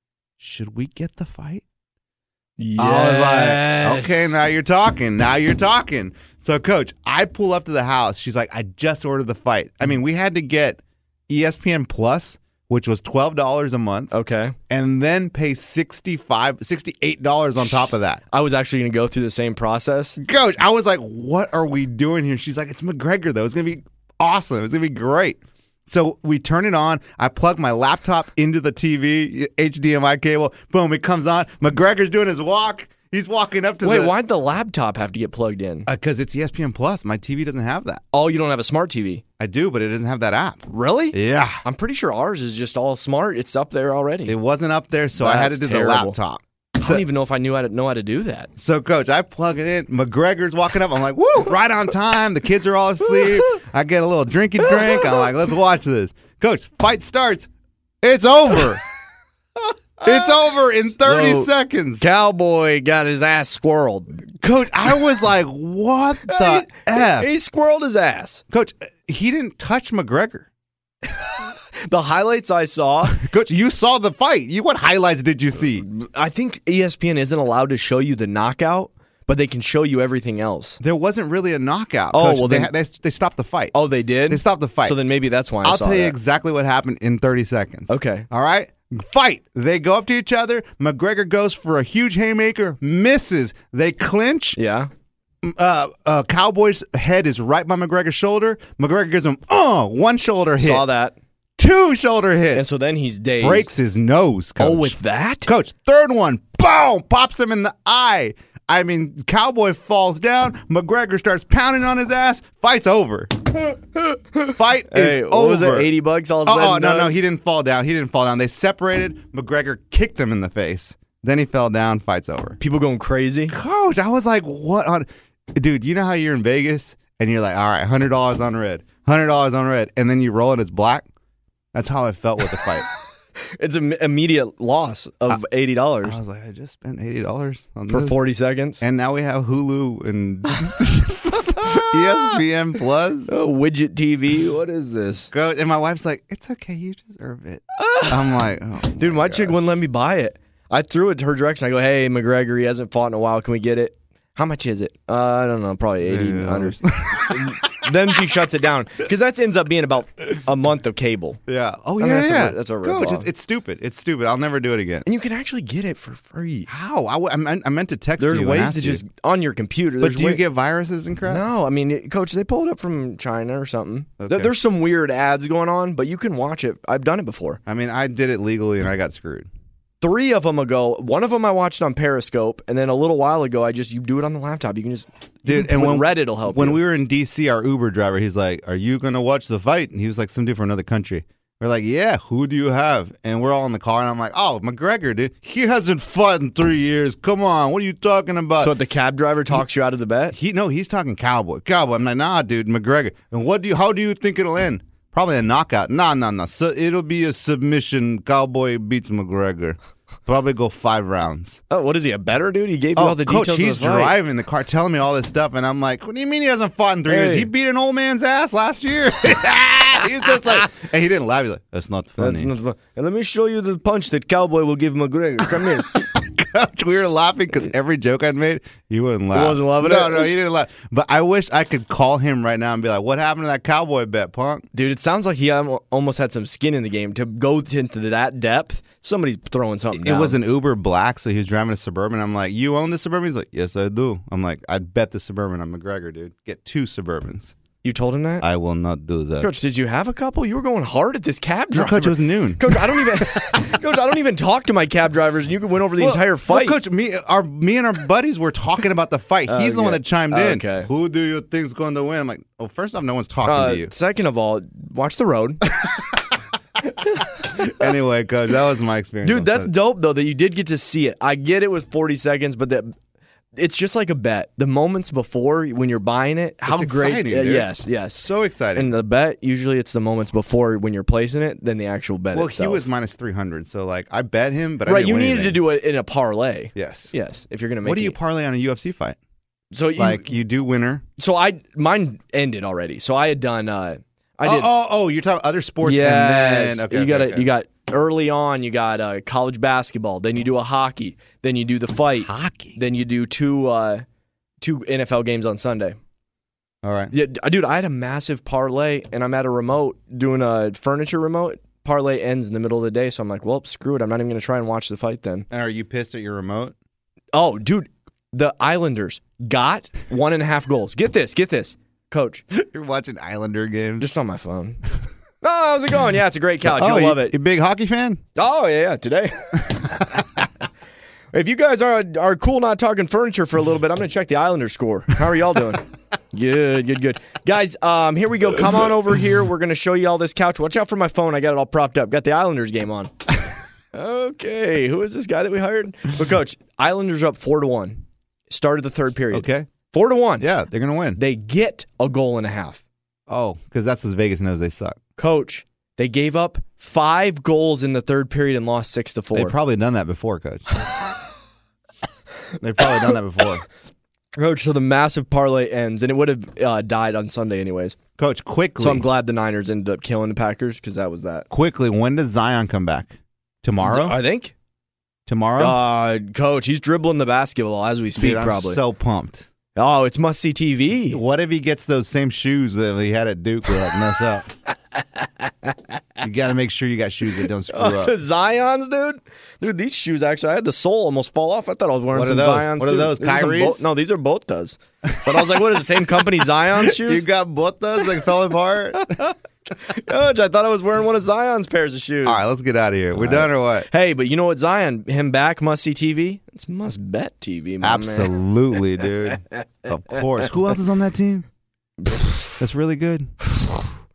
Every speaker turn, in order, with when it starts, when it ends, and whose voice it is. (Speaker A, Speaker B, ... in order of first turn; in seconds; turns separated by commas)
Speaker A: 0.4-1.6, Speaker B: 2.6-4.3, Speaker A: 2.8-14.1, Speaker B: 14.1-14.5, Speaker A: 14.7-18.2, Speaker B: 18.3-20.2, Speaker A: 20.2-34.1, Speaker B: 33.8-35.9, Speaker A: 35.9-38.0, Speaker B: 38.1-39.2, Speaker A: 39.4-41.6, Speaker B: 40.7-44.4, Speaker A: 44.2-47.0, Speaker B: 45.1-46.2, Speaker B: 46.8-48.5, Speaker A: 48.6-57.5, Speaker A: 58.0-58.8, Speaker A: 60.0-62.0, Speaker B: 61.0-64.2, Speaker A: 64.4-67.3, Speaker B: 66.3-68.4, Speaker A: 68.5-70.5, Speaker B: 71.4-73.2, Speaker A: 73.1-75.8, Speaker B: 75.8-80.8, Speaker A: 80.8-83.7, Speaker B: 82.1-82.7, Speaker B: 83.7-86.2, Speaker A: 84.3-85.0, Speaker A: 85.6-94.6, Speaker B: 87.9-88.3, Speaker B: 94.6-94.9, Speaker A: 95.4-100.9, Speaker B: 100.6-101.2, Speaker A: 101.6-102.7, Speaker B: 102.5-103.7, Speaker A: 103.4-113.3, Speaker B: 104.6-105.5, Speaker B: 113.7-117.2, Speaker A: 114.5-115.9, Speaker A: 116.5-122.6, Speaker B: 122.6-123.5, Speaker A: 123.5-131.1, Speaker A: 131.7-132.9, Speaker B: 133.6-136.2, Speaker A: 136.0-138.2, Speaker B: 137.9-138.8, Speaker A: 138.8-143.3, Speaker B: 141.7-142.0, Speaker B: 143.3-145.3, Speaker A: 145.3-149.6, Speaker B: 147.8-148.4, Speaker B: 149.0-161.4, Speaker A: 156.0-157.9, Speaker A: 161.5-165.1, Speaker B: 162.0-163.3, Speaker B: 165.0-166.7, Speaker A: 166.7-169.0, Speaker B: 168.2-170.4, Speaker A: 170.0-171.5, Speaker B: 171.2-177.6, Speaker A: 174.2-174.5, Speaker A: 177.7-179.5, Speaker B: 180.0-186.8, Speaker A: 185.4-198.8, Speaker B: 198.6-200.3, Speaker A: 200.3-211.6, Speaker B: 211.7-214.2, Speaker A: 212.9-222.5, Speaker B: 217.1-217.5, Speaker B: 222.2-226.0, Speaker A: 225.6-234.7, Speaker B: 229.3-230.3, Speaker B: 234.7-240.4, Speaker A: 239.9-247.5, Speaker B: 247.8-248.4, Speaker A: 248.4-249.5, Speaker B: 249.4-256.8, Speaker A: 251.7-253.8, Speaker A: 256.0-263.9, Speaker B: 259.5-260.9, Speaker B: 263.4-265.6, Speaker A: 265.8-266.1, Speaker A: 267.4-269.7, Speaker B: 269.2-272.9, Speaker B: 273.6-282.8, Speaker A: 276.7-278.9, Speaker A: 282.3-285.6, Speaker B: 284.9-288.1, Speaker A: 286.7-287.1, Speaker A: 287.8-289.2, Speaker B: 289.7-290.3, Speaker A: 289.9-291.0, Speaker B: 291.2-294.7, Speaker A: 294.4-297.5, Speaker B: 295.8-304.0, Speaker A: 302.2-302.8, Speaker B: 304.6-306.0, Speaker A: 306.8-307.1, Speaker B: 307.1-315.5, Speaker A: 315.5-316.7, Speaker B: 317.3-322.4, Speaker A: 322.5-324.1, Speaker B: 324.0-324.8, Speaker B: 325.4-327.3, Speaker A: 326.6-328.2, Speaker B: 328.4-330.1, Speaker B: 331.3-343.1, Speaker B: 343.9-350.5, Speaker A: 349.3-349.7, Speaker A: 350.4-351.2, Speaker B: 351.1-352.8, Speaker A: 353.3-355.0, Speaker B: 355.2-359.6, Speaker A: 359.3-360.6, Speaker A: 362.6-363.6, Speaker B: 364.3-368.0, Speaker A: 368.2-369.0, Speaker B: 368.8-371.5, Speaker A: 371.5-374.2, Speaker B: 373.8-374.5, Speaker A: 375.2-375.8, Speaker B: 375.6-378.8, Speaker A: 378.2-379.5, Speaker B: 379.8-381.2, Speaker A: 381.1-384.5, Speaker B: 385.4-385.7, Speaker A: 386.2-388.2, Speaker B: 387.7-397.2, Speaker A: 392.1-393.9, Speaker A: 395.2-395.6, Speaker A: 396.8-399.3, Speaker B: 399.8-402.4, Speaker A: 402.2-403.9, Speaker B: 403.1-408.3, Speaker A: 407.8-411.4, Speaker B: 412.0-412.5, Speaker A: 412.6-413.3